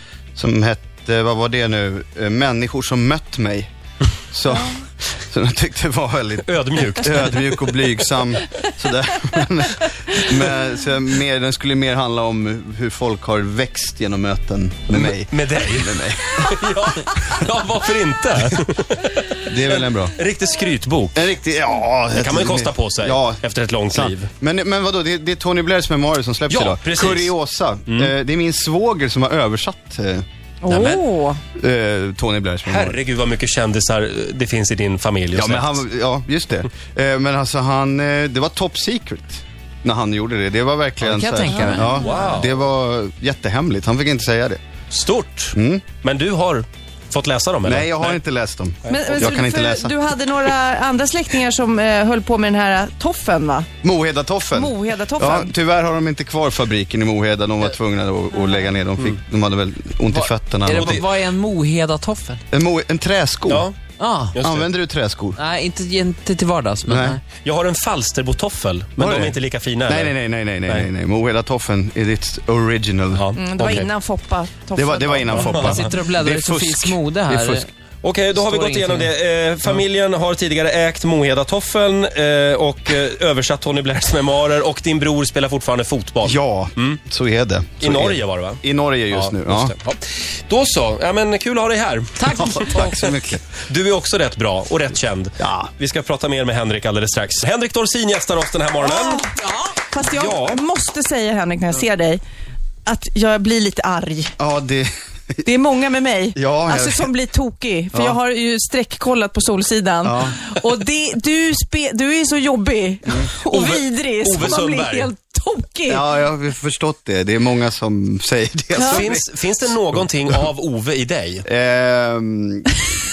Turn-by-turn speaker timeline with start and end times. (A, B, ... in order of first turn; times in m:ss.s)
0:00.4-0:03.7 A
0:04.3-0:16.6 A
0:06.4-0:07.4 B
0:14.9-0:21.3 B
0:19.5-0:20.2 A
0:21.2-0:30.2 A
0:22.2-0:24.3 B
0:26.5-0:27.3 B
0:27.9-0:28.1 B
0:30.6-0:31.4 C
0:30.7-0:31.0 B
0:31.6-0:33.0 A
0:32.7-0:35.8 B
0:35.3-0:44.6 A
0:41.0-0:41.9 D
0:41.5-0:41.9 C
0:41.9-0:42.5 B
0:44.9-0:48.2 B
0:45.5-0:45.8 A
0:47.6-0:50.0 A
0:48.8-0:49.1 B
0:48.9-0:53.7 C
0:53.8-1:01.0 A
0:54.5-0:55.5 C
1:00.1-1:02.4 D
1:00.8-1:01.0 B
1:02.5-1:03.7 A
1:03.5-1:03.8 B
1:04.0-1:04.4 D
1:04.3-1:04.7 B
1:04.4-1:05.4 A
1:05.4-1:07.2 D
1:06.9-1:07.2 A
1:07.4-1:10.1 B
1:09.0-1:13.2 A
1:13.1-1:13.9 B
1:13.4-1:15.8 C
1:14.8-1:17.7 A
1:15.3-1:17.7 D
1:15.4-1:15.8 B
1:18.0-1:27.0 B
1:18.4-1:19.1 D
1:26.2-1:29.8 A
1:27.8-1:33.0 B
1:32.2-1:32.8 D
1:32.2-1:33.4 A
1:33.6-1:39.3 B
1:35.4-1:35.7 A
1:38.8-1:42.2 C
1:40.0-1:40.6 B
1:42.9-1:44.4 C
1:44.4-1:45.5 A
1:45.4-1:56.0 C
1:46.4-1:47.1 A
1:50.0-1:50.4 A
1:53.1-1:53.3 A
1:53.5-1:55.1 B
1:55.9-2:00.4 A
1:58.8-1:59.1 C
1:58.8-2:01.4 B
2:01.5-2:02.9 A